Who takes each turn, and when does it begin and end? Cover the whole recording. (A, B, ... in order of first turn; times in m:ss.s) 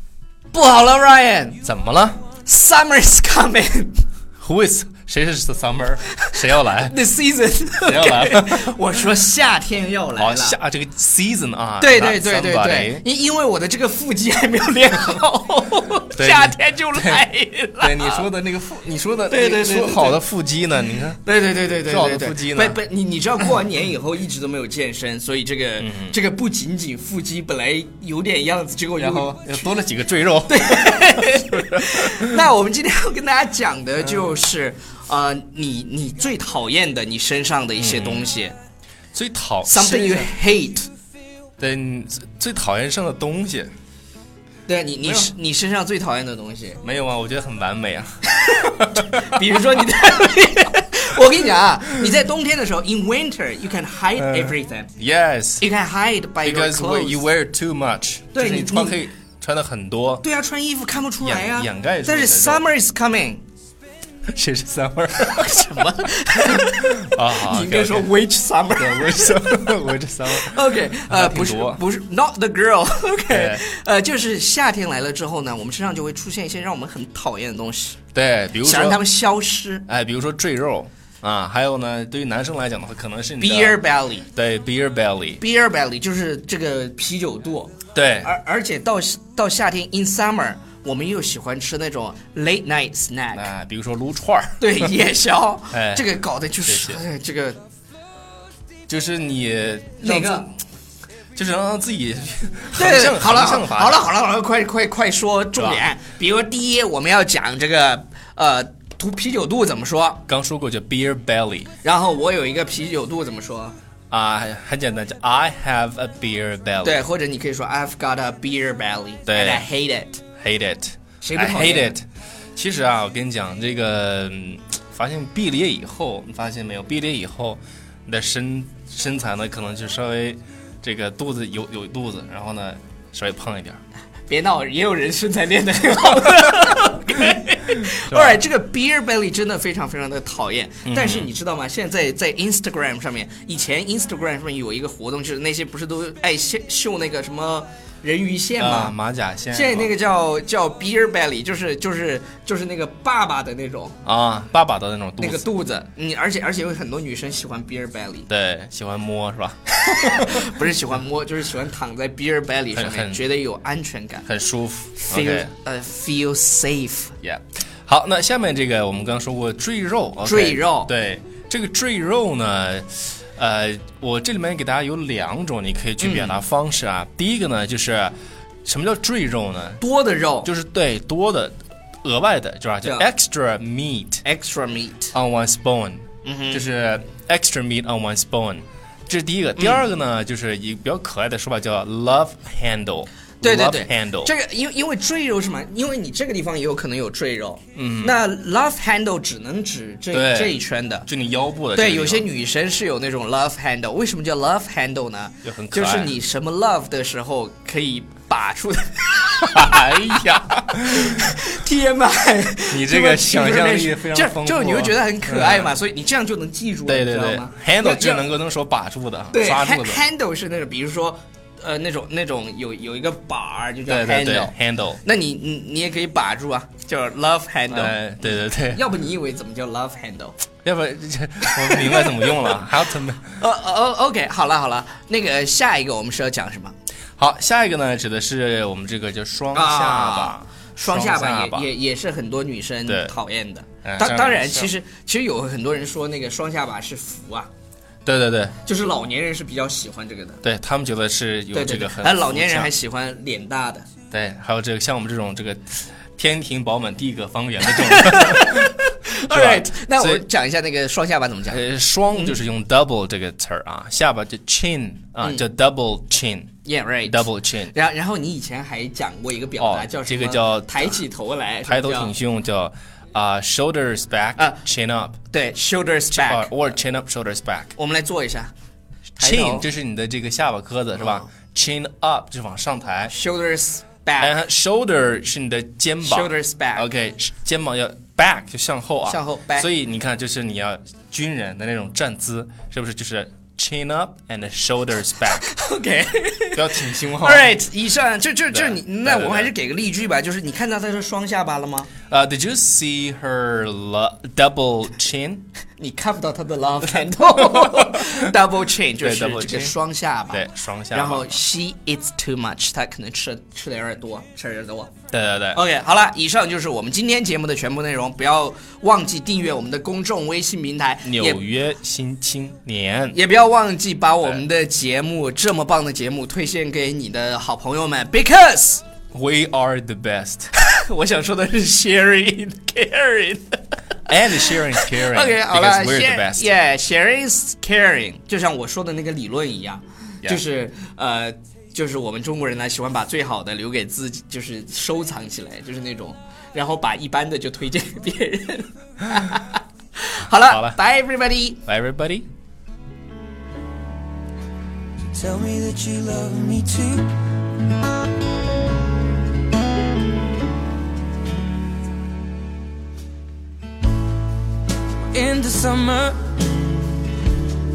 0:00.5-0:01.6 A
0:01.6-0:02.2 B
0:02.4-0:04.0 A
0:04.4-0:07.0 B
0:06.2-0:10.6 A
0:07.8-0:08.8 B
0:10.2-0:13.0 B
0:11.8-0:18.3 A
0:16.1-0:17.2 B
0:17.8-0:21.2 B
0:19.3-0:20.2 A
0:21.2-0:29.6 A
0:21.8-0:22.8 B
0:25.8-0:26.2 B
0:29.0-0:32.3 B
0:30.5-0:38.5 A
0:37.8-0:38.2 B
0:39.1-0:40.3 B
0:39.7-0:40.9 A
0:41.6-0:43.7 B
0:44.7-0:46.8 A
0:45.0-0:45.3 B
0:46.8-0:49.4 B
0:48.3-0:54.9 A
0:54.2-0:55.6 B
0:55.6-0:57.2 A
0:56.4-1:00.2 B
0:58.3-0:59.0 A
1:00.2-1:03.4 A
1:01.2-1:02.6 B
1:04.3-1:05.8 B
1:05.2-1:09.7 A
1:06.5-1:08.2 B
1:08.8-1:11.8 B
1:10.3-1:18.0 A
1:13.3-1:13.6 B
1:18.1-1:19.0 B
1:18.6-1:19.8 A
1:19.9-1:23.8 B
1:23.4-1:24.3 A
1:24.3-1:25.4 B
1:25.4-1:33.5 A
1:27.9-1:28.3 B
1:33.3-1:34.9 B
1:34.6-1:37.6 A
1:35.7-1:36.0 B
1:36.6-1:37.0 B
1:38.9-1:40.5 B
1:40.0-1:40.5 A
1:41.3-1:44.1 B
1:42.7-1:50.2 A
1:45.6-1:45.8 B
1:50.3-1:51.7 B
1:51.8-1:53.7 A
1:54.1-1:57.0 B
1:56.8-2:00.2 A
1:59.3-1:59.6 B
2:00.4-2:02.0 B
2:01.2-2:02.0 A
2:02.5-2:13.8 B
2:14.3-2:28.9 A
2:17.9-2:18.4 B
2:20.8-2:21.3 B
2:28.6-2:29.9 B
2:29.5-2:34.0 A
2:34.0-2:35.4 B
2:35.2-2:38.3 A
2:38.3-2:40.4 B
2:39.7-2:44.3 A
2:42.7-2:43.2 B
2:44.2-2:45.5 B
2:45.0-2:47.1 A
2:47.2-2:58.1 B
2:50.2-2:50.9 A
2:56.0-2:56.4 A
2:58.6-2:59.8 B
2:59.8-3:00.5 A
3:00.4-3:04.2 B
3:04.2-3:05.1 A
3:05.1-3:14.3 B
3:06.2-3:06.6 A
3:09.6-3:09.8 A
3:13.4-3:21.1 A
3:17.7-3:18.2 B
3:20.1-3:22.3 B
3:21.7-3:38.3 A
3:25.4-3:26.1 B
3:29.5-3:31.4 B
3:32.7-3:35.7 B
3:36.9-3:40.0 B
3:39.3-3:44.5 A
3:43.9-3:45.0 B
3:45.0-3:50.4 A
3:47.7-3:48.8 B
3:50.6-3:53.4 B
3:51.5-3:52.6 A
3:53.3-3:56.7 A
3:57.2-4:01.7 B
3:59.5-4:07.5 A
4:02.8-4:03.1 B
4:03.8-4:04.7 B
4:08.0-4:08.6 B
4:08.6-4:10.4 A
4:10.4-4:12.7 B
4:11.5-4:13.9 A
4:14.1-4:20.2 B
4:17.6-4:21.6 A
4:21.5-4:26.5 B
4:22.1-4:22.4 A
4:25.2-4:25.4 A
4:26.6-4:32.1 A
4:27.1-4:27.7 B
4:29.6-4:31.0 B
4:31.6-4:35.2 B
4:35.3-4:36.5 A
4:36.1-4:37.7 B
4:37.8-4:38.5 A
4:39.2-4:43.1 B
4:39.2-4:39.6 A
4:41.0-4:41.2 A
4:43.1-4:44.3 A
4:44.2-4:55.4 B
4:46.0-4:46.9 A
4:49.0-4:49.7 A
4:55.4-5:01.9 A
4:56.5-4:57.5 B
4:58.5-4:59.5 B
5:02.1-5:05.4 B
5:05.8-5:14.9 A
5:07.3-5:08.2 B
5:09.0-5:09.7 B
5:10.3-5:11.4 B
5:15.1-5:15.6 B
5:15.5-5:21.4 A
5:21.0-5:23.2 B
5:23.1-5:28.8 A
5:29.1-5:30.5 B
5:30.5-5:33.6 A
5:34.0-5:36.4 B
5:34.4-5:51.6 A
5:50.4-5:50.8 B
5:51.6-5:52.2 B
5:55.1-5:57.3 C
6:05.1-6:06.5 C